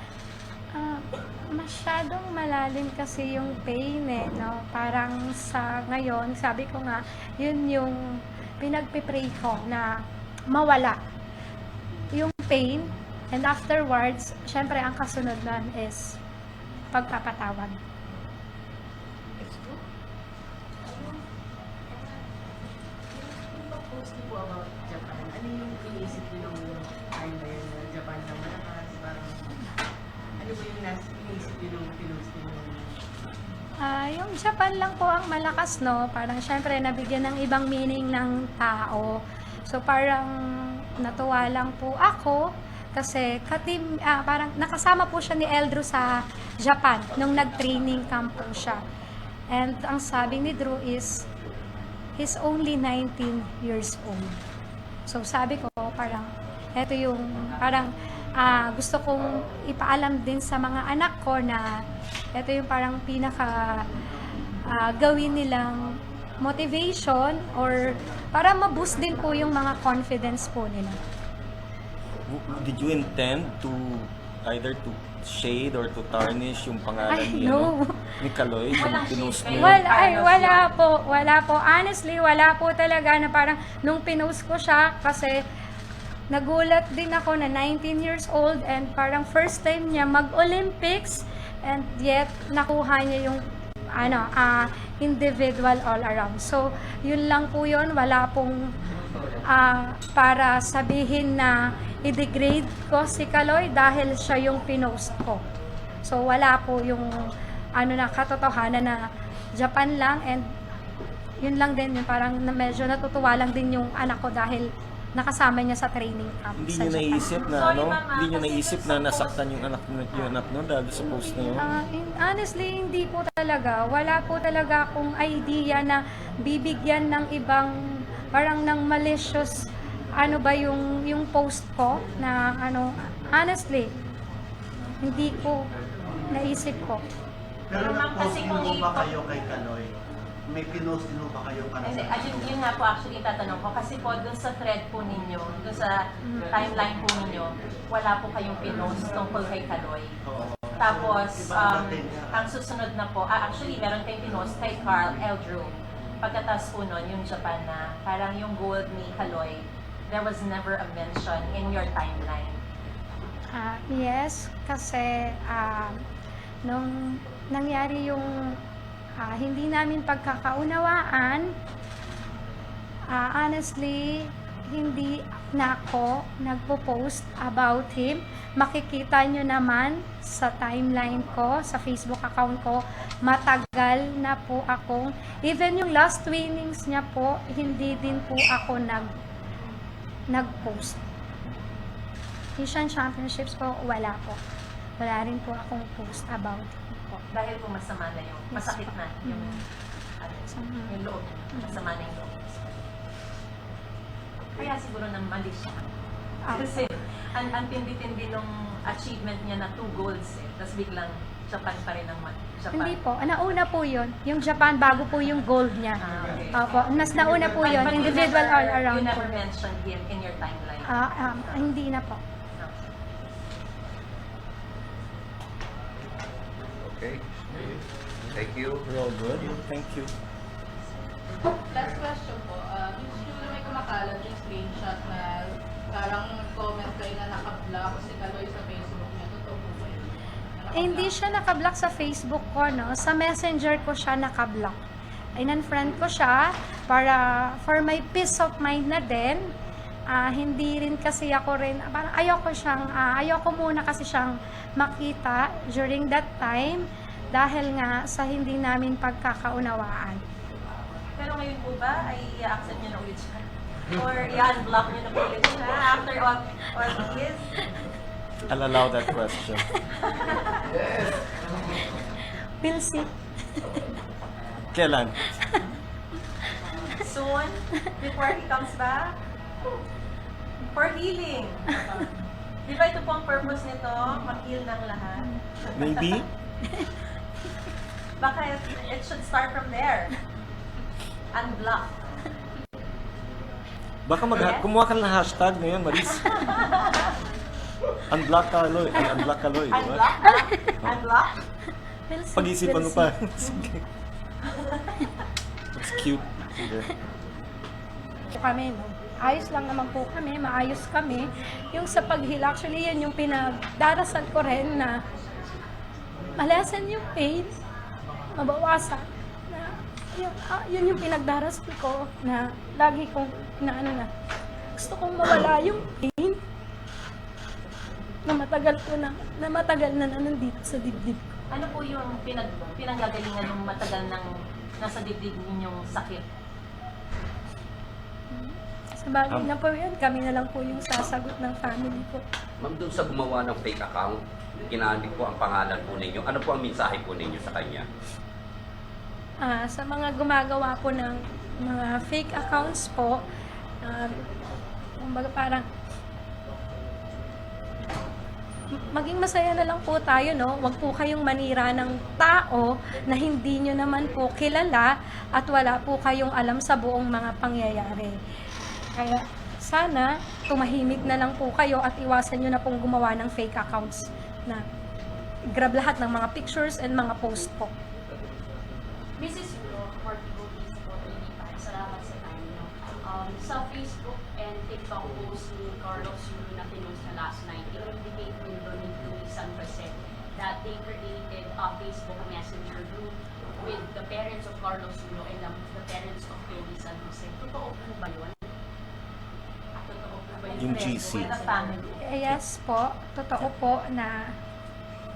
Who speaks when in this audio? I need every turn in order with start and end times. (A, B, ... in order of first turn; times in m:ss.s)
0:00.7-0:08.0 A
0:08.6-0:09.9 A
0:10.5-0:11.0 A
0:12.1-0:16.2 A
0:16.9-0:17.8 A
0:19.4-0:19.8 B
0:20.8-0:21.2 B
0:21.9-0:22.2 B
0:23.1-0:29.4 B
0:30.4-0:32.9 B
0:33.8-0:40.3 A
0:41.0-0:48.8 A
0:49.5-0:51.2 A
0:52.2-0:54.4 A
0:55.1-1:01.6 A
1:02.3-1:03.8 A
1:04.7-1:11.0 A
1:12.3-1:19.8 C
1:17.1-1:18.1 A
1:18.7-1:20.7 D
1:19.5-1:25.4 A
1:26.3-1:33.4 A
1:34.0-1:38.6 A
1:39.5-1:45.4 A
1:46.0-1:47.1 A
1:47.8-1:49.0 A
1:49.6-1:50.4 A
1:51.4-1:57.4 A
1:56.6-2:01.7 C
1:57.3-1:59.5 D
2:01.6-2:07.7 A
2:08.3-2:09.5 A
2:10.2-2:13.9 A
2:15.0-2:15.6 A
2:16.3-2:17.0 A
2:17.7-2:19.9 E
2:17.7-2:19.1 D
2:20.5-2:22.5 E
2:21.8-2:25.9 D
2:26.5-2:30.2 D
2:30.3-2:32.5 E
2:30.8-2:42.6 D
2:43.5-2:46.0 A
2:46.6-2:48.3 A
2:49.2-2:51.5 A
2:53.1-3:09.1 A
3:10.3-3:11.0 A
3:12.6-3:14.4 A
3:15.0-3:17.2 A
3:17.3-3:19.6 D
3:18.5-3:19.6 A
3:20.2-3:22.8 D
3:20.5-3:21.0 A
3:21.5-3:21.8 A
3:24.5-3:25.8 D
3:26.4-3:26.8 A
3:26.5-3:33.0 D
3:32.7-3:39.4 A
3:36.0-3:36.6 D
3:37.6-3:41.6 D
3:40.9-3:42.2 A
3:46.8-3:48.8 F
3:48.8-3:50.1 C
3:51.7-4:01.1 G
4:00.7-4:04.8 A
4:05.4-4:09.5 A
4:10.1-4:20.2 A
4:21.2-4:27.5 D
4:28.5-4:29.6 C
4:29.4-4:29.8 A
4:30.1-4:30.5 D
4:32.6-4:33.1 A
4:34.7-4:35.3 C
4:37.0-4:39.1 D
4:40.7-4:42.0 D
4:42.6-4:46.0 D
4:45.8-4:46.3 C
4:48.2-4:50.1 D
4:51.3-4:51.9 D
4:54.1-4:56.4 C
4:54.3-4:54.6 D
4:56.1-4:57.0 D
4:58.1-5:00.1 C
4:58.9-5:01.3 D
5:00.2-5:00.7 A
5:02.1-5:03.6 A
5:02.3-5:03.8 C
5:05.7-5:06.9 C
5:08.3-5:15.0 A
5:16.4-5:17.5 A
5:18.4-5:24.1 A
5:24.8-5:26.4 A
5:28.2-5:31.2 A
5:31.5-5:34.3 D
5:34.8-5:36.2 D
5:38.3-5:42.2 A
5:42.6-5:47.9 F
5:49.4-5:53.2 A
5:53.8-5:54.1 A
5:55.0-5:55.6 A
5:58.8-6:08.1 A
6:09.0-6:14.6 A
6:15.5-6:17.7 A
6:19.2-6:38.5 H
6:39.8-6:42.0 H
6:40.4-6:41.9 D
6:40.6-6:41.3 C
6:42.0-6:44.3 A